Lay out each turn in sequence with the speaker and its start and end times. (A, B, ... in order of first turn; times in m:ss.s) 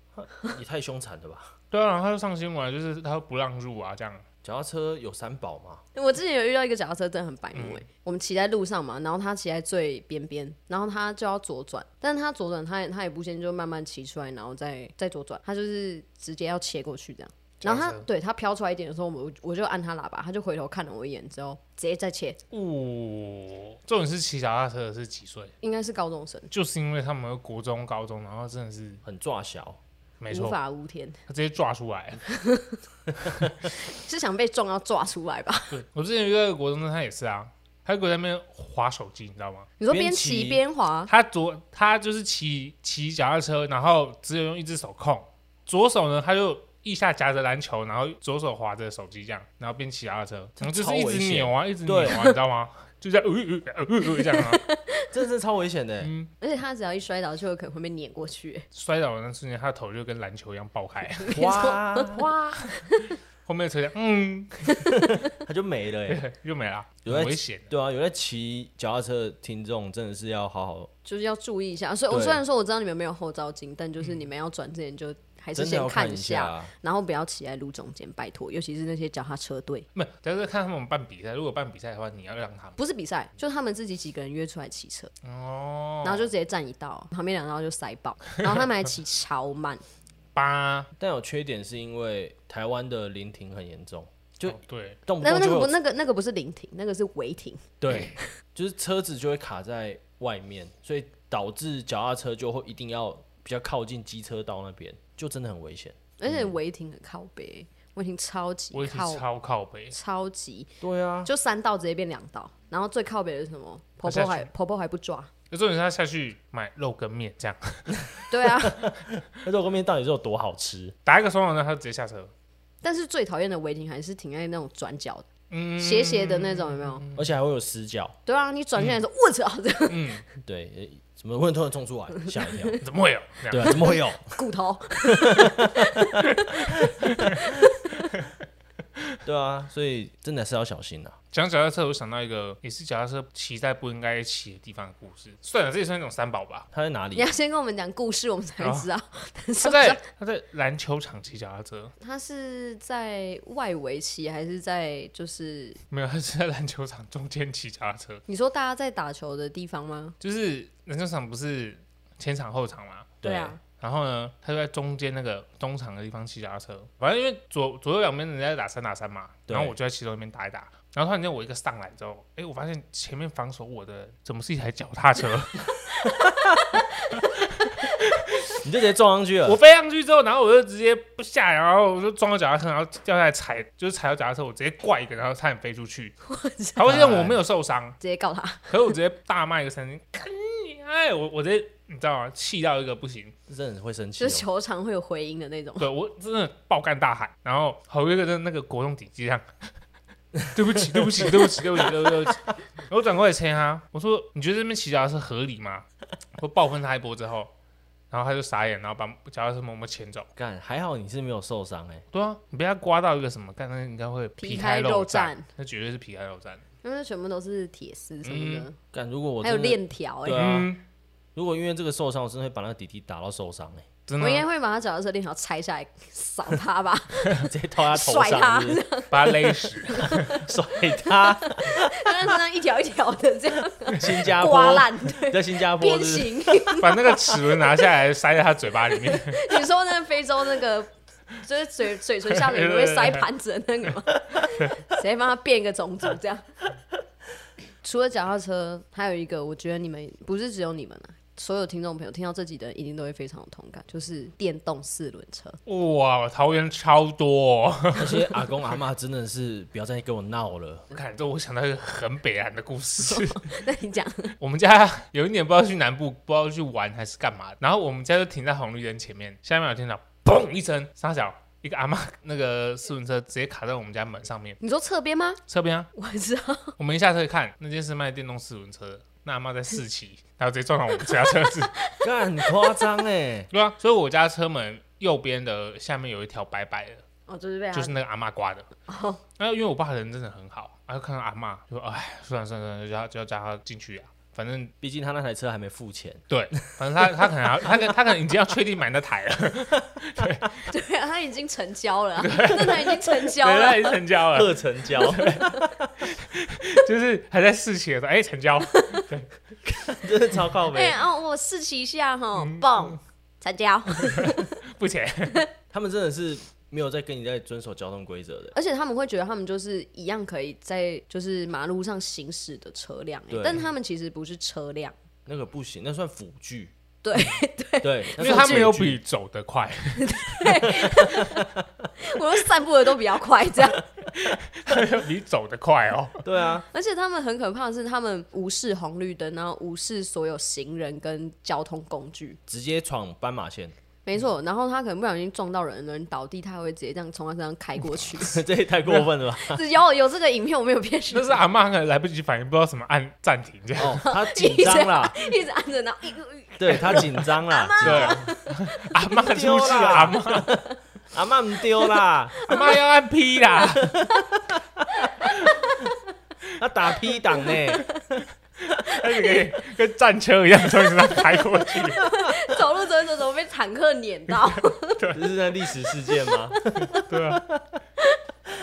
0:00.2-0:01.5 A
0:01.7-0:04.2 B
0:04.4-0:05.8 A
0:05.9-0:22.4 C
0:07.5-0:07.8 B
0:17.6-0:18.1 B
0:22.5-0:25.5 B
0:25.6-0:26.5 C
0:26.5-0:29.0 B
0:29.0-0:29.8 A
0:30.2-0:30.6 B
0:30.3-0:31.2 C
0:31.3-0:32.2 B
0:32.3-0:32.8 C
0:33.6-0:35.8 C
0:35.7-0:39.7 B
0:39.8-0:41.1 C
0:39.9-0:40.6 A
0:41.1-0:54.6 B
0:50.6-0:52.3 A
0:54.0-0:55.1 C
0:55.1-0:56.1 A
0:56.0-0:56.3 B
0:56.4-0:58.6 C
0:58.7-1:01.4 B
1:01.2-1:02.1 C
1:01.3-1:02.3 A
1:02.1-1:05.0 B
1:04.7-1:05.2 C
1:05.3-1:06.2 A
1:06.1-1:07.7 B
1:07.0-1:10.9 A
1:11.0-1:19.9 C
1:12.1-1:12.4 A
1:15.5-1:16.7 A
1:19.9-1:22.8 B
1:22.8-1:25.1 C
1:25.2-1:26.3 B
1:26.0-1:29.8 C
1:30.3-1:30.9 B
1:31.0-1:35.8 A
1:34.5-1:35.0 B
1:35.2-1:38.2 C
1:37.8-1:46.4 A
1:46.2-1:49.2 C
1:48.7-1:49.9 B
1:49.9-1:50.7 C
1:50.8-1:51.3 A
1:51.2-1:55.3 C
1:54.0-1:54.5 B
1:55.5-1:58.0 B
1:58.3-1:58.9 C
1:58.6-2:01.0 A
2:01.0-2:02.3 B
2:02.8-2:05.3 C
2:05.5-2:07.3 B
2:05.8-2:07.0 C
2:07.2-2:08.2 A
2:08.2-2:10.1 C
2:09.9-2:10.2 B
2:10.4-2:12.8 A
2:12.3-2:12.8 C
2:12.8-2:13.9 B
2:13.5-2:14.4 A
2:14.3-2:18.0 C
2:15.1-2:16.2 A
2:16.5-2:17.4 B
2:19.2-2:21.2 A
2:21.3-2:26.7 B
2:26.7-2:27.3 A
2:27.1-2:30.0 C
2:28.6-2:28.9 B
2:29.6-2:31.9 B
2:32.0-2:35.8 C
2:35.9-2:38.2 B
2:38.3-2:40.2 C
2:40.2-2:55.7 B
2:43.2-2:43.6 A
2:43.2-2:43.6 C
2:49.5-2:49.7 A
2:56.7-2:57.2 C
2:57.2-2:58.6 B
2:58.6-2:59.6 A
2:59.4-3:06.2 B
3:06.2-3:06.8 C
3:06.8-3:08.0 B
3:06.8-3:07.4 A
3:08.0-3:08.9 C
3:08.7-3:13.3 B
3:13.5-3:14.4 A
3:14.2-3:15.9 C
3:15.8-3:19.4 B
3:20.5-3:25.8 B
3:26.4-3:27.5 B
3:28.1-3:30.3 B
3:30.4-3:32.0 A
3:32.1-3:36.6 B
3:34.4-3:35.4 C
3:36.8-3:38.8 C
3:38.2-3:38.7 B
3:38.9-3:40.7 A
3:39.4-3:40.5 C
3:40.4-3:40.8 B
3:41.3-3:43.9 A
3:44.1-3:44.4 B
3:44.2-3:57.6 C
3:47.4-3:48.8 A
3:49.1-3:50.4 B
3:50.3-3:52.1 A
3:53.9-3:56.6 A
3:56.8-3:59.6 B
3:58.9-4:06.4 C
4:02.3-4:03.2 B
4:07.8-4:15.6 C
4:15.6-4:18.4 B
4:18.0-4:20.8 A
4:20.9-4:23.5 B
4:23.0-4:24.3 C
4:24.4-4:34.6 B
4:34.6-4:35.4 C
4:35.5-4:35.9 B
4:35.9-4:36.8 C
4:36.8-4:41.8 B
4:41.7-4:42.8 C
4:42.0-4:43.5 A
4:43.5-4:47.0 B
4:47.3-4:47.9 C
4:47.7-4:48.7 B
4:48.9-4:49.2 C
4:49.4-4:54.7 B
4:54.8-4:56.2 A
4:56.3-5:00.7 B
4:57.0-4:57.7 A
5:00.6-5:04.0 C
5:02.2-5:05.5 B
5:04.3-5:05.9 A
5:05.3-5:05.7 C
5:06.0-5:09.3 B
5:08.7-5:09.0 C
5:09.6-5:11.0 A
5:10.7-5:14.5 C
5:12.4-5:12.9 B
5:14.0-5:15.4 B
5:15.7-5:18.6 A
5:18.5-5:24.9 C
5:23.3-5:23.6 A
5:25.2-5:26.7 A
5:27.0-5:28.7 C
5:27.8-5:29.0 A
5:28.2-5:31.0 B
5:30.0-5:33.8 C
5:31.2-5:31.8 A
5:34.1-5:36.2 B
5:36.2-5:36.6 A
5:36.7-5:42.4 C
5:42.5-5:43.7 A
5:44.0-5:48.4 C
5:48.1-5:49.6 A
5:49.4-5:51.4 C
5:51.1-5:54.0 B
5:53.8-5:55.2 A
5:54.0-5:58.9 C
5:56.6-5:58.2 A
5:57.8-6:00.5 B
5:59.2-6:00.6 A
6:01.1-6:02.5 A
6:01.8-6:02.8 C
6:02.5-6:04.0 B
6:03.8-6:04.1 A
6:05.0-6:06.0 C
6:06.6-6:07.9 A
6:07.3-6:08.0 C
6:08.7-6:12.0 B
6:08.9-6:09.4 C
6:11.1-6:15.1 C
6:15.0-6:15.2 B
6:15.1-6:17.6 A
6:15.7-6:17.0 C
6:16.9-6:17.5 B